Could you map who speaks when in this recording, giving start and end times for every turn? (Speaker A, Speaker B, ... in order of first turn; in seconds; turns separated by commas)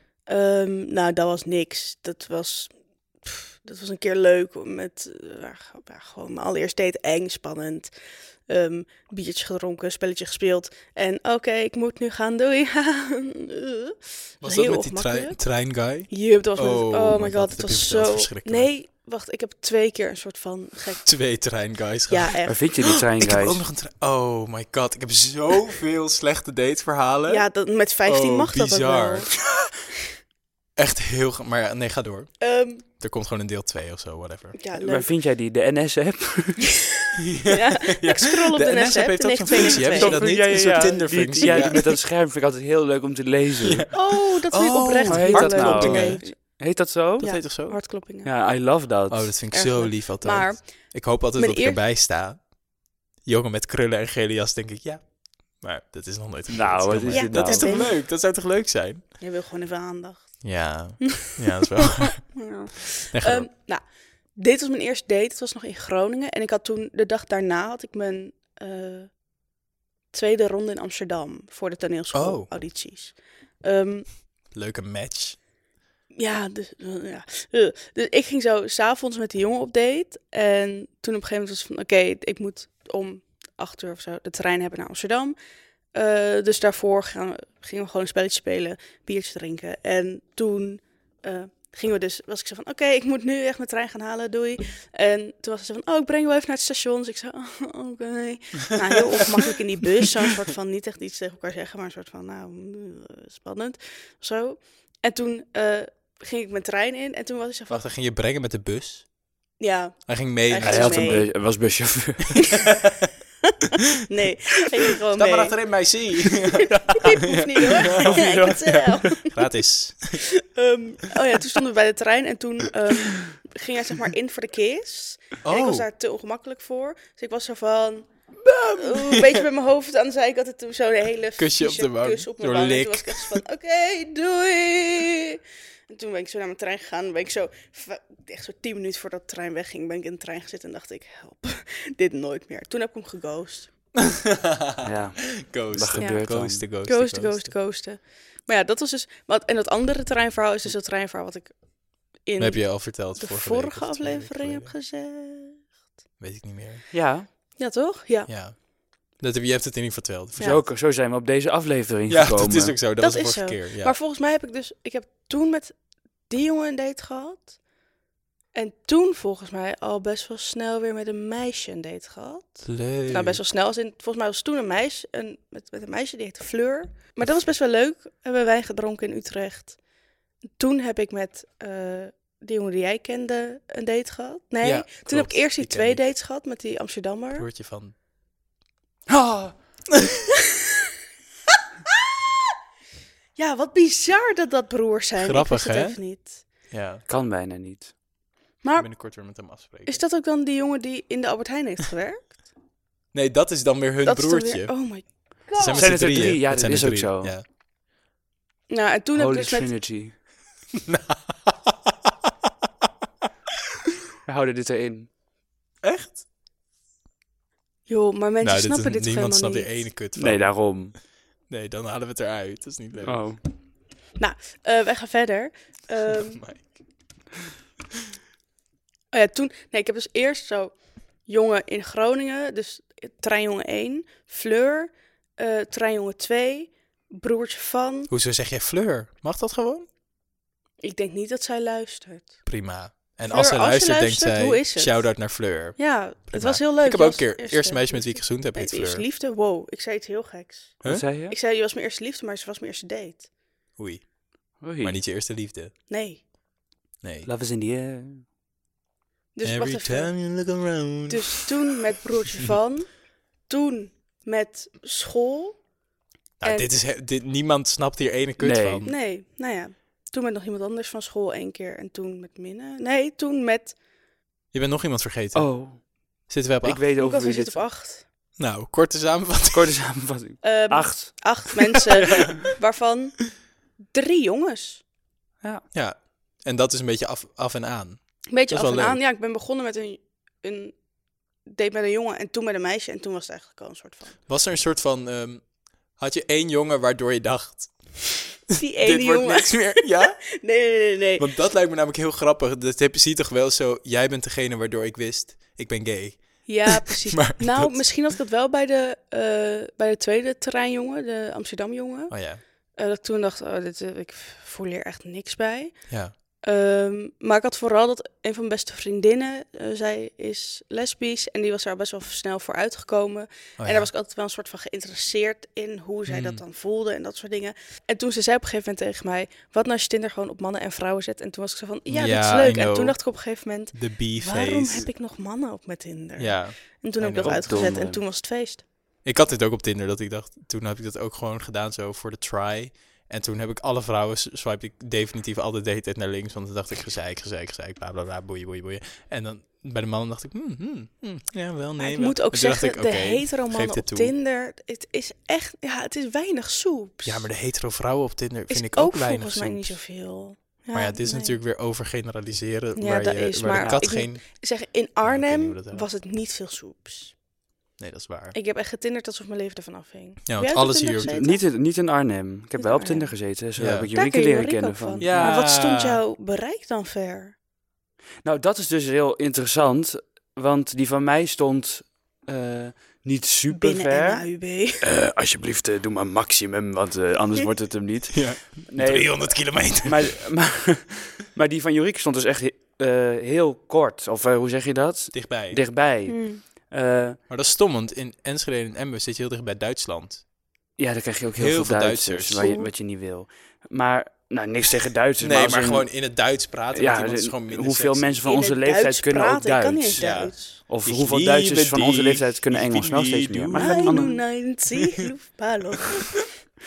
Speaker A: 0.3-7.9, Speaker A: 8.5-15.4, Speaker B: 14.4-18.7, Speaker A: 16.1-21.1, Speaker B: 21.0-22.4, Speaker A: 22.1-23.0, Speaker C: 22.4-23.6, Speaker B: 22.9-27.4, Speaker A: 27.3-29.3, Speaker B: 28.0-29.3, Speaker B: 30.8-32.3, Speaker A: 32.4-32.8, Speaker B: 33.0-34.6, Speaker A: 34.6-35.1, Speaker C: 34.8-36.7, Speaker B: 37.1-41.8, Speaker A: 37.5-40.2, Speaker C: 39.5-43.9, Speaker A: 41.4-41.8, Speaker B: 43.6-46.2, Speaker A: 43.9-46.5, Speaker C: 45.1-47.2, Speaker B: 47.2-47.8, Speaker A: 47.2-48.3, Speaker C: 48.2-49.3, Speaker B: 49.1-52.5, Speaker A: 49.5-51.8, Speaker B: 53.2-59.0, Speaker C: 56.5-57.9, Speaker A: 57.1-57.9, Speaker A: 59.2-61.3, Speaker B: 60.4-62.4, Speaker A: 62.0-63.8, Speaker B: 63.1-63.5, Speaker A: 64.3-69.1, Speaker A: 70.1-74.2, Speaker B: 72.1-72.5, Speaker B: 74.5-75.4, Speaker A: 76.1-85.3, Speaker A: 85.9-107.8, Speaker B: 107.7-109.1, Speaker A: 109.6-111.3, Speaker B: 110.1-111.3, Speaker C: 110.6-112.6, Speaker A: 114.1-115.5, Speaker B: 115.1-120.2, Speaker A: 116.7-119.3, Speaker C: 117.8-119.1, Speaker A: 120.2-128.1, Speaker B: 125.4-125.8, Speaker B: 128.4-129.4, Speaker A: 128.7-143.7, Speaker B: 131.4-133.4, Speaker B: 143.9-147.5, Speaker C: 144.8-146.7, Speaker A: 146.0-151.5, Speaker A: 152.2-155.7, Speaker B: 152.4-154.7, Speaker B: 156.2-156.8, Speaker C: 156.9-157.3, Speaker A: 157.6-158.3, Speaker B: 158.3-158.6, Speaker B: 159.1-160.6, Speaker A: 160.4-160.6, Speaker C: 160.4-162.8, Speaker B: 162.1-163.9, Speaker A: 163.0-165.8, Speaker A: 166.3-167.6, Speaker A: 168.5-179.8, Speaker B: 172.6-173.4, Speaker A: 180.5-187.4, Speaker B: 184.6-186.0, Speaker B: 187.3-187.9, Speaker C: 189.1-189.5, Speaker A: 193.3-196.4, Speaker B: 195.2-196.0, Speaker B: 196.7-197.0, Speaker C: 197.1-197.9, Speaker A: 198.6-199.0, Speaker B: 198.8-200.0, Speaker A: 199.8-202.3, Speaker B: 203.1-204.7, Speaker A: 204.0-206.0, Speaker B: 205.4-207.4, Speaker C: 205.7-207.3, Speaker A: 208.7-209.7, Speaker C: 209.1-210.1, Speaker B: 210.8-211.7, Speaker C: 214.2-215.1, Speaker B: 215.8-216.2, Speaker A: 217.9-219.8, Speaker B: 218.4-220.5, Speaker C: 220.1-220.9, Speaker B: 221.5-223.2, Speaker C: 223.0-223.4, Speaker A: 224.2-226.4, Speaker B: 226.1-226.7, Speaker A: 229.1-230.7, Speaker A: 231.2-238.1, Speaker B: 238.1-239.9, Speaker A: 240.8-242.4, Speaker B: 242.4-249.0, Speaker A: 243.3-245.2, Speaker A: 245.8-253.3, Speaker C: 250.8-251.3, Speaker B: 253.8-254.1, Speaker C: 254.6-254.9, Speaker B: 254.8-255.7, Speaker A: 255.9-256.2, Speaker B: 257.0-257.3, Speaker C: 257.2-258.2, Speaker A: 259.3-260.2, Speaker B: 259.4-261.5, Speaker A: 261.1-265.6, Speaker B: 266.4-268.9, Speaker A: 266.4-266.7, Speaker C: 268.4-268.8, Speaker A: 268.8-273.8, Speaker B: 274.5-275.5, Speaker C: 275.3-275.8, Speaker B: 276.3-276.8, Speaker C: 276.6-277.6, Speaker A: 277.0-278.0, Speaker B: 278.4-279.7, Speaker C: 279.5-281.2, Speaker A: 280.4-283.4, Speaker B: 282.1-282.4, Speaker A: 283.9-284.8, Speaker B: 285.7-289.0, Speaker A: 288.3-290.7, Speaker A: 291.4-294.2, Speaker B: 294.3-297.9, Speaker B: 298.5-300.2, Speaker A: 298.6-301.3, Speaker B: 301.2-307.8, Speaker A: 306.4-315.9, Speaker B: 312.1-312.4, Speaker B: 315.9-316.1, Speaker A: 316.4-338.6, Speaker B: 323.6-323.9, Speaker B: 326.1-326.4, Speaker B: 331.9-333.0, Speaker B: 333.7-334.9, Speaker B: 336.2-337.7, Speaker C: 337.2-338.0, Speaker B: 339.0-354.1, Speaker A: 351.8-357.3, Speaker B: 357.0-359.8, Speaker A: 358.5-361.4, Speaker B: 360.7-364.2, Speaker A: 362.8-367.1, Speaker C: 363.5-363.8, Speaker B: 365.0-365.8, Speaker B: 367.8-368.4, Speaker A: 368.3-371.4, Speaker B: 370.3-371.2, Speaker C: 371.0-375.4, Speaker A: 372.6-373.2, Speaker B: 373.6-373.9, Speaker A: 373.9-377.3, Speaker B: 375.0-376.0, Speaker C: 378.2-384.3, Speaker A: 383.5-384.8, Speaker C: 384.8-397.2, Speaker B: 388.1-390.2, Speaker B: 395.1-395.6, Speaker A: 396.1-396.4, Speaker B: 397.3-400.2, Speaker C: 400.8-405.9, Speaker B: 401.4-402.5, Speaker A: 402.4-402.7, Speaker B: 405.2-408.3, Speaker C: 406.7-414.2, Speaker A: 408.2-410.6, Speaker B: 409.9-414.1, Speaker A: 413.5-416.3, Speaker B: 414.7-415.0